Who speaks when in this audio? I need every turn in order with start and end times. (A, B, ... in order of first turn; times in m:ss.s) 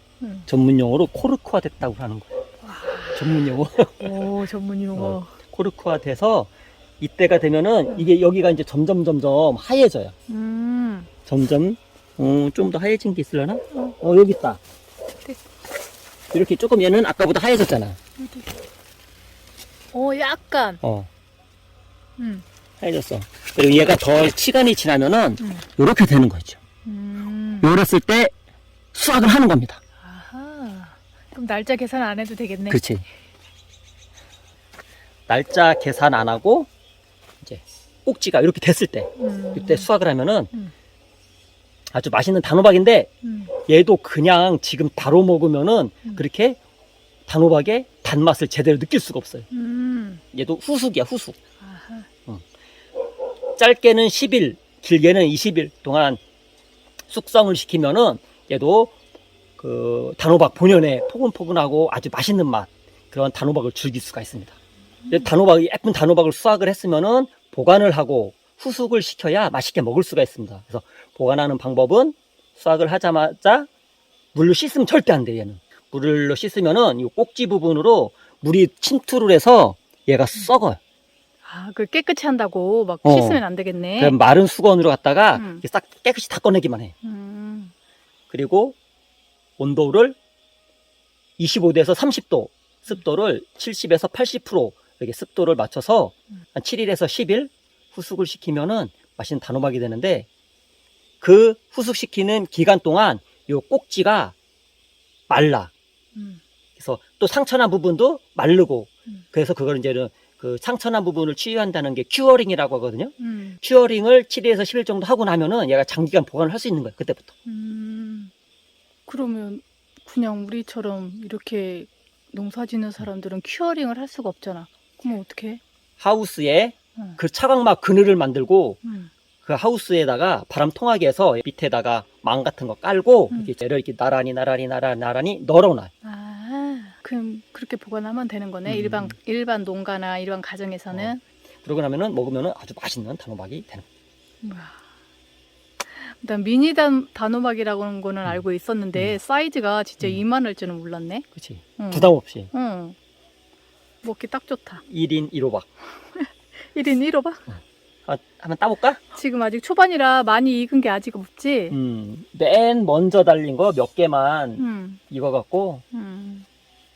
0:00.2-0:00.5 A
0:00.5-0:02.3 B
0:02.6-0:03.3 A
0:03.2-0:04.1 B
0:04.0-0:05.3 A
0:05.0-0:10.1 B
0:10.3-0:11.1 A
0:11.2-0:14.6 B
0:16.3-0:18.0 B
0:18.2-0:18.5 A
0:19.9-0:20.8 A
0:20.8-0:21.1 B
0:22.2-0:22.4 A
0:22.8-0:26.6 B
0:26.8-0:27.7 A
0:27.6-0:28.3 B
0:28.9-0:29.8 B
0:30.0-0:32.8 A
0:32.7-0:33.0 B
0:35.3-0:36.7 B
0:37.4-0:40.5 B
0:39.2-0:39.9 A
0:41.9-0:43.1 B
0:43.2-0:43.5 A
0:43.6-0:46.6 B
0:47.3-0:49.4 B
0:49.5-0:50.2 A
0:50.3-0:51.4 B
0:51.6-0:52.1 A
0:53.6-0:56.2 B
0:57.1-0:58.9 B
0:59.6-1:04.6 B
1:05.1-1:13.7 B
1:14.3-1:20.8 B
1:21.4-1:24.2 A
1:23.0-1:23.4 B
1:24.0-1:26.9 B
1:25.3-1:25.6 A
1:27.0-1:27.7 A
1:28.3-1:28.8 B
1:29.6-1:30.2 B
1:31.4-1:40.3 B
1:41.2-1:44.3 B
1:45.3-1:45.7 B
1:46.1-1:46.4 A
1:46.8-1:57.3 B
1:53.2-1:53.6 A
1:57.4-1:58.3 A
1:59.1-2:05.6 A
2:06.0-2:08.8 B
2:08.8-2:09.1 A
2:09.4-2:15.9 B
2:16.0-2:21.2 A
2:18.6-2:19.1 B
2:20.9-2:23.8 B
2:24.4-2:24.8 A
2:25.9-2:31.2 A
2:31.3-2:32.5 B
2:31.8-2:33.0 A
2:34.0-2:34.8 A
2:34.9-2:35.7 B
2:36.0-2:37.4 A
2:38.1-2:39.0 B
2:39.1-2:41.8 A
2:41.7-2:45.8 B
2:44.6-2:45.0 A
2:45.9-2:46.4 A